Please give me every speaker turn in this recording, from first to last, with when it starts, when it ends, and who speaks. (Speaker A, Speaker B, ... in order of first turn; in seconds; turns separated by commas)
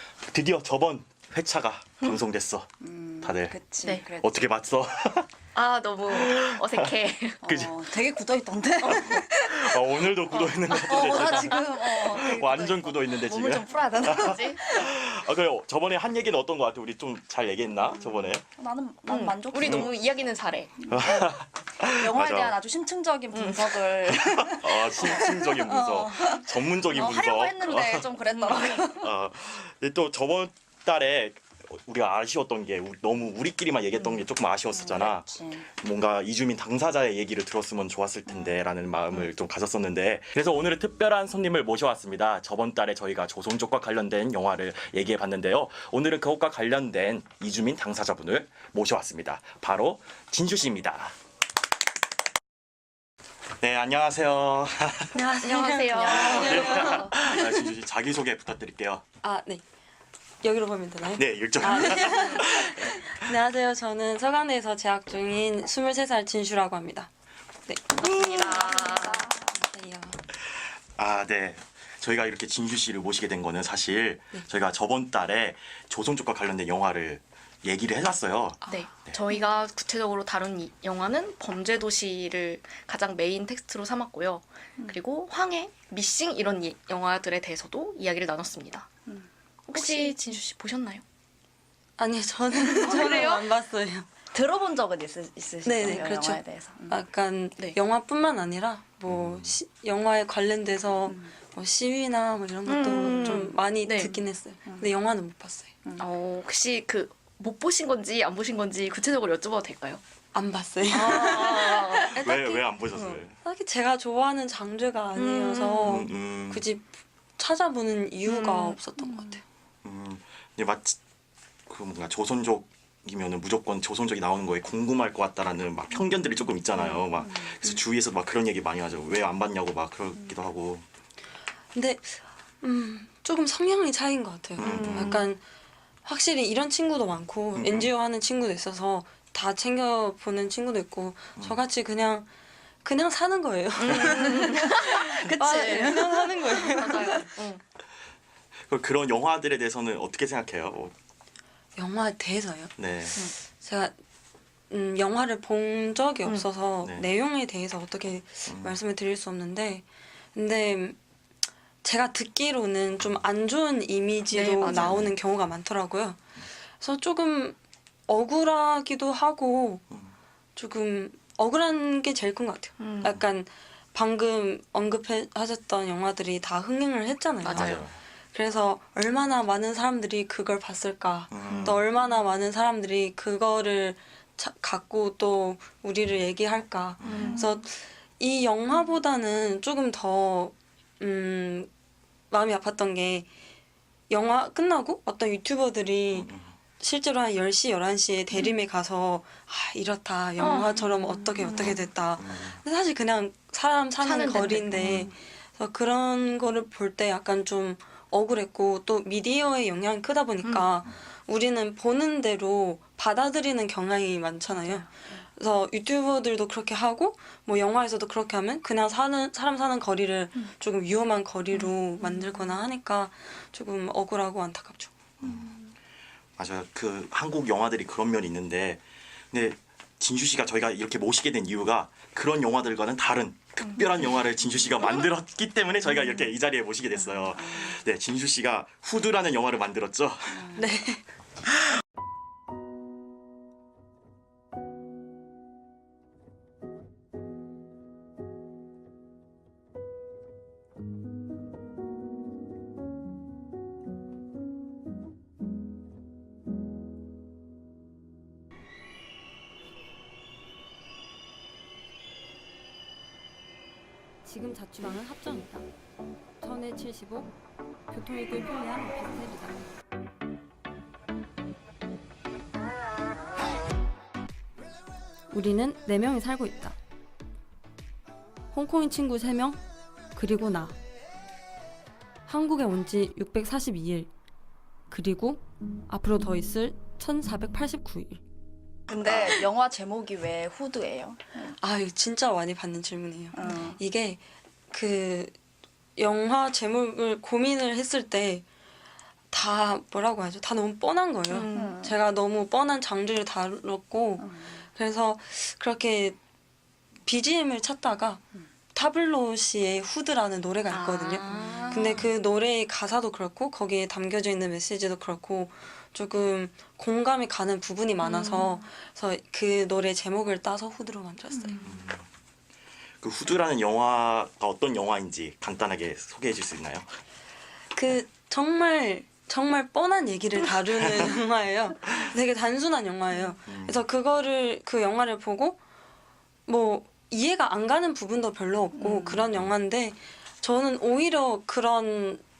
Speaker A: 0.2-2.7, Speaker B: 2.8-4.5, Speaker A: 3.2-3.6, Speaker A: 4.2-5.3, Speaker C: 5.5-7.4, Speaker A: 6.1-6.9, Speaker A: 7.4-7.7, Speaker B: 7.4-10.1, Speaker A: 8.8-18.4, Speaker C: 10.7-12.4, Speaker B: 10.8-14.9, Speaker C: 13.8-14.6, Speaker B: 17.9-19.9, Speaker C: 19.1-20.9, Speaker A: 19.6-19.9, Speaker B: 20.8-21.3, Speaker A: 20.9-22.6, Speaker B: 21.9-29.1, Speaker C: 23.3-23.8, Speaker A: 24.2-51.1, Speaker B: 34.7-35.7, Speaker A: 53.6-55.2, Speaker D: 55.1-57.4, Speaker C: 55.4-57.4, Speaker A: 56.2-59.0, Speaker D: 59.2-59.6, Speaker D: 60.4-67.1, Speaker A: 61.2-63.0, Speaker D: 67.7-70.2, Speaker C: 68.0-69.3, Speaker A: 71.0-79.2, Speaker C: 78.7-88.9, Speaker B: 89.1-90.2, Speaker C: 89.7-91.0, Speaker D: 92.0-94.1, Speaker C: 92.5-93.5, Speaker B: 94.3-97.0, Speaker D: 95.7-105.7, Speaker A: 99.1-99.5, Speaker C: 102.7-104.2, Speaker C: 106.0-110.0, Speaker D: 110.3-119.4, Speaker C: 110.9-112.2, Speaker A: 112.2-113.4, Speaker C: 115.2-116.1, Speaker A: 115.8-116.7, Speaker C: 118.3-118.8, Speaker B: 119.0-119.4, Speaker A: 119.8-121.0, Speaker A: 121.7-130.8, Speaker B: 127.2-127.5, Speaker D: 131.7-135.4, Speaker A: 134.6-135.2, Speaker C: 134.6-135.3, Speaker D: 136.1-142.3, Speaker A: 137.6-137.9, Speaker D: 142.8-147.3, Speaker C: 143.8-147.6, Speaker A: 148.7-150.9, Speaker D: 151.8-152.7, Speaker A: 152.8-153.2, Speaker D: 153.5-153.9, Speaker D: 154.7-161.0, Speaker A: 158.5-158.8, Speaker D: 161.8-166.2, Speaker C: 164.3-165.1, Speaker A: 164.7-165.1, Speaker D: 166.8-167.6, Speaker D: 168.1-169.8, Speaker D: 170.6-191.7, Speaker C: 172.8-173.2, Speaker C: 177.4-177.9, Speaker A: 177.5-178.0, Speaker A: 181.3-181.8, Speaker A: 187.0-187.3, Speaker C: 187.0-187.5, Speaker B: 187.1-187.5, Speaker D: 192.3-193.3, Speaker D: 194.1-224.9, Speaker A: 196.1-196.5, Speaker C: 200.4-200.8, Speaker B: 200.6-201.5, Speaker A: 201.5-202.6, Speaker C: 204.0-204.9, Speaker A: 204.7-205.1, Speaker A: 225.2-225.5, Speaker B: 225.2-225.7, Speaker A: 226.4-240.5, Speaker B: 237.3-237.8, Speaker B: 240.3-240.7, Speaker C: 240.6-241.0, Speaker D: 264.2-265.7, Speaker D: 266.4-267.4, Speaker D: 267.9-269.7, Speaker D: 275.3-276.8, Speaker D: 278.5-279.6, Speaker D: 280.1-280.8, Speaker D: 282.3-284.1, Speaker D: 284.9-288.2, Speaker B: 288.9-291.5, Speaker A: 289.1-289.3, Speaker D: 291.6-295.4, Speaker B: 293.3-293.8, Speaker D: 296.0-298.5, Speaker D: 299.3-306.2, Speaker C: 301.3-301.8, Speaker B: 301.5-301.9, Speaker B: 304.2-304.6, Speaker D: 307.1-308.2, Speaker D: 308.7-321.8, Speaker C: 310.7-312.1, Speaker B: 311.6-311.9, Speaker C: 318.0-318.6, Speaker A: 321.6-322.1, Speaker A: 323.0-327.0, Speaker D: 327.8-335.6, Speaker A: 333.5-333.8, Speaker D: 336.5-342.2, Speaker B: 338.8-339.3